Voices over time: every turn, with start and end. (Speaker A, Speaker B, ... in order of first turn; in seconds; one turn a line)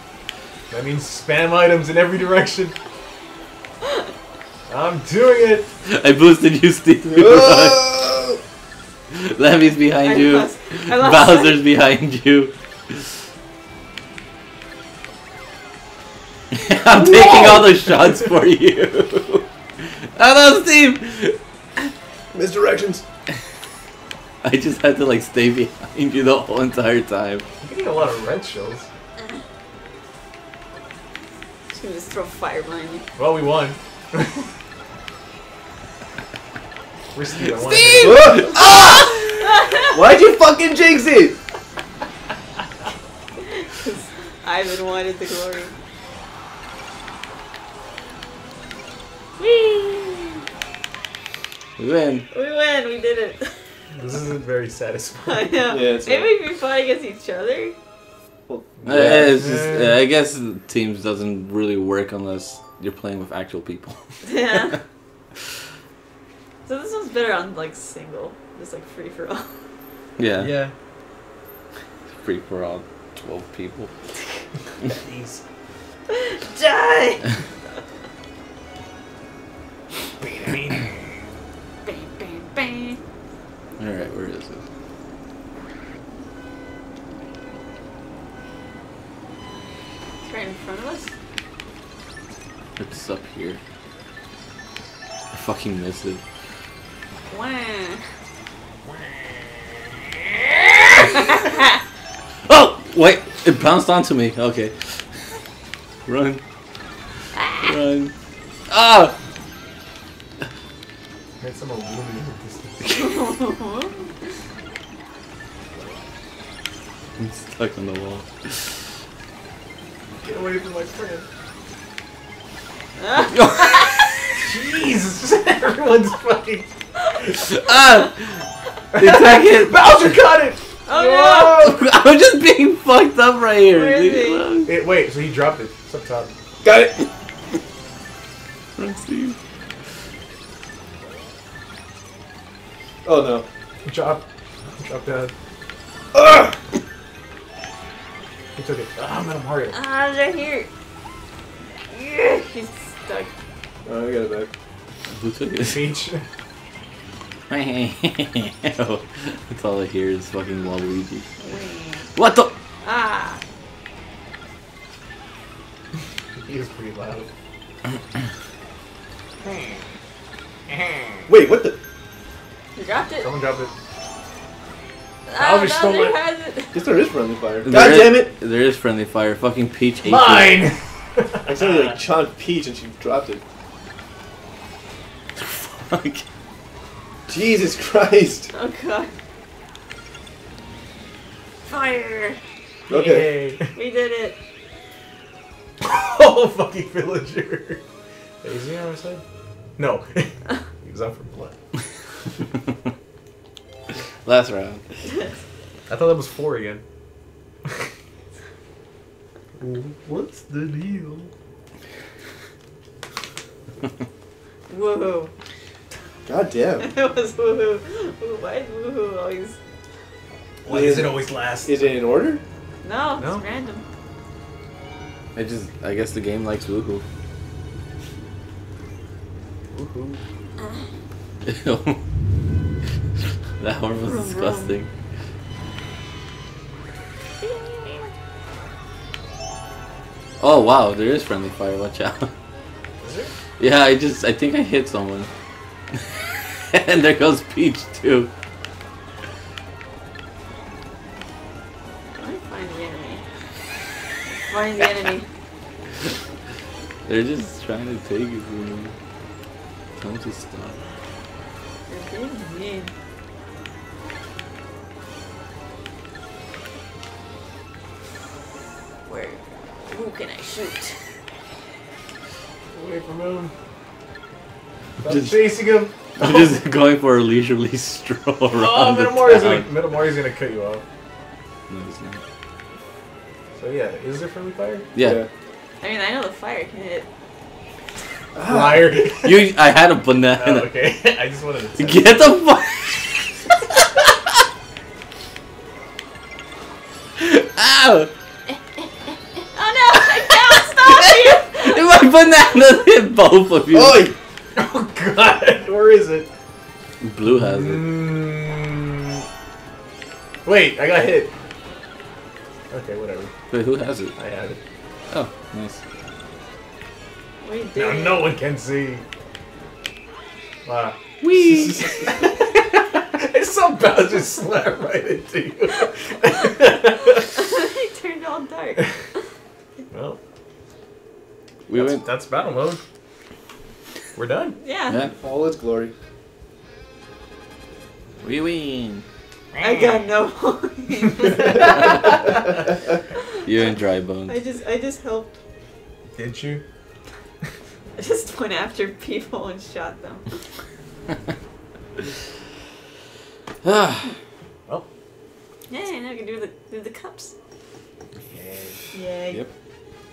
Speaker A: 0.7-2.7
Speaker A: 4.7-5.7
Speaker B: 5.8-7.9
Speaker C: 7.1-8.4
Speaker B: 9.1-13.0
Speaker D: 10.0-11.6
Speaker B: 16.5-21.9
Speaker C: 16.9-17.7
Speaker C: 22.3-23.0
Speaker B: 24.4-27.4
Speaker A: 27.6-28.9
Speaker D: 31.7-33.0
Speaker A: 33.1-34.4
Speaker A: 37.1-38.5
Speaker B: 37.5-39.4
Speaker C: 38.0-39.2
Speaker D: 39.2-40.0
Speaker C: 39.8-41.4
Speaker D: 43.4-45.7
Speaker D: 49.4-50.4
Speaker B: 51.8-52.2
Speaker D: 52.3-53.5
Speaker A: 53.9-55.6
Speaker D: 55.2-57.8
Speaker C: 55.7-56.3
Speaker C: 58.5-59.4
Speaker B: 58.8-64.0
Speaker A: 58.9-59.8
Speaker D: 64.2-64.8
Speaker D: 66.7-69.5
Speaker B: 70.2-70.6
Speaker A: 70.4-70.7
Speaker B: 72.1-73.9
Speaker A: 74.8-75.4
Speaker D: 76.1-77.2
Speaker A: 80.2-80.9
Speaker D: 81.8-83.0
Speaker B: 83.8-84.6
Speaker D: 90.2-91.1
Speaker B: 92.8-93.6
Speaker B: 95.3-96.2
Speaker D: 97.3-98.0
Speaker B: 102.5-105.0
Speaker B: 106.0-106.4
Speaker D: 107.3-107.8
Speaker B: 107.6-108.1
Speaker B: 108.7-109.1
Speaker A: 111.4-113.1
Speaker D: 112.9-114.1
Speaker B: 117.2-118.7
Speaker A: 120.2-121.2
Speaker D: 123.0-124.1
Speaker B: 123.2-124.2
Speaker A: 124.4-126.7
Speaker B: 127.4-130.2
Speaker A: 128.9-131.8
Speaker D: 130.8-131.7
Speaker B: 131.6-134.8
Speaker D: 133.7-134.5
Speaker A: 134.7-136.3
Speaker C: 136.6-137.1
Speaker B: 138.8-139.4
Speaker C: 143.0-143.5
Speaker A: 143.8-144.2
Speaker A: 144.8-145.3
Speaker C: 146.1-146.5
Speaker A: 148.6-149.8
Speaker D: 149.7-150.7
Speaker D: 151.9-153.3
Speaker C: 153.8-154.5
Speaker B: 155.1-155.9
Speaker A: 155.6-156.2
Speaker B: 157.5-161.3
Speaker D: 161.4-162.1
Speaker B: 162.2-162.6
Speaker D: 162.8-163.4
Speaker A: 166.4-167.3
Speaker C: 171.3-171.8
Speaker D: 172.8-173.3
Speaker A: 173.2-173.7
Speaker D: 175.3-176.8
Speaker A: 175.4-176.2
Speaker C: 176.7-178.3
Speaker B: 177.6-180.7
Speaker A: 180.0-181.5
Speaker C: 181.4-183.4
Speaker B: 185.3-186.2
Speaker C: 187.3-188.5
Speaker D: 188.5-189.1
Speaker D: 191.7-192.4
Speaker C: 192.9-193.4
Speaker A: 192.9-193.7
Speaker D: 193.7-194.3
Speaker A: 195.8-197.8
Speaker A: 198.4-199.2
Speaker A: 199.8-201.5
Speaker B: 204.2-204.8
Speaker A: 205.9-206.8
Speaker C: 209.6-211.0
Speaker A: 209.6-211.2
Speaker D: 214.7-215.3
Speaker C: 216.2-216.9
Speaker D: 216.8-219.6
Speaker A: 220.6-221.9
Speaker C: 220.7-222.4
Speaker D: 222.8-223.8
Speaker A: 223.2-223.4
Speaker B: 225.3-227.0
Speaker A: 229.7-230.2
Speaker D: 230.6-230.9
Speaker B: 231.4-232.0
Speaker B: 233.6-234.9
Speaker D: 234.0-234.8
Speaker D: 237.4-238.1
Speaker B: 240.4-242.3
Speaker A: 243.0-243.3
Speaker B: 243.6-245.3
Speaker B: 245.9-248.3
Speaker D: 252.1-253.2
Speaker D: 254.3-255.2
Speaker B: 257.1-258.9
Speaker B: 260.0-260.8
Speaker D: 261.9-262.9
Speaker D: 269.1-270.9
Speaker A: 272.7-273.5
Speaker A: 275.0-276.3
Speaker B: 275.0-275.5
Speaker B: 276.1-279.7
Speaker A: 278.5-280.8
Speaker B: 281.7-282.2
Speaker A: 283.6-284.9
Speaker B: 284.9-285.2
Speaker C: 285.0-285.3
Speaker D: 285.8-287.1
Speaker C: 288.3-289.0
Speaker A: 288.4-289.4
Speaker B: 289.2-290.7
Speaker A: 290.3-292.2
Speaker B: 291.8-294.1
Speaker B: 297.2-298.1
Speaker D: 299.5-301.8
Speaker B: 300.3-304.1
Speaker C: 303.7-304.1
Speaker A: 304.6-306.3
Speaker B: 307.0-307.9
Speaker A: 307.3-309.2
Speaker A: 310.4-311.3
Speaker A: 312.7-313.3
Speaker B: 313.5-314.1
Speaker A: 314.1-314.6
Speaker B: 315.1-315.8
Speaker D: 317.4-318.3
Speaker A: 317.8-319.0
Speaker A: 320.6-321.0
Speaker B: 321.2-321.8
Speaker C: 321.4-322.0
Speaker A: 322.0-327.3
Speaker D: 327.3-328.9
Speaker A: 329.9-330.2
Speaker B: 331.7-332.1
Speaker A: 331.7-332.8
Speaker A: 334.1-334.6
Speaker D: 334.6-335.0
Speaker C: 335.1-335.9
Speaker B: 338.2-339.0
Speaker D: 339.6-342.1
Speaker B: 343.4-344.4
Speaker D: 344.3-345.4
Speaker A: 346.1-346.6
Speaker D: 348.0-350.3
Speaker B: 353.6-354.1
Speaker D: 355.7-357.3
Speaker A: 358.2-358.8
Speaker D: 358.9-359.5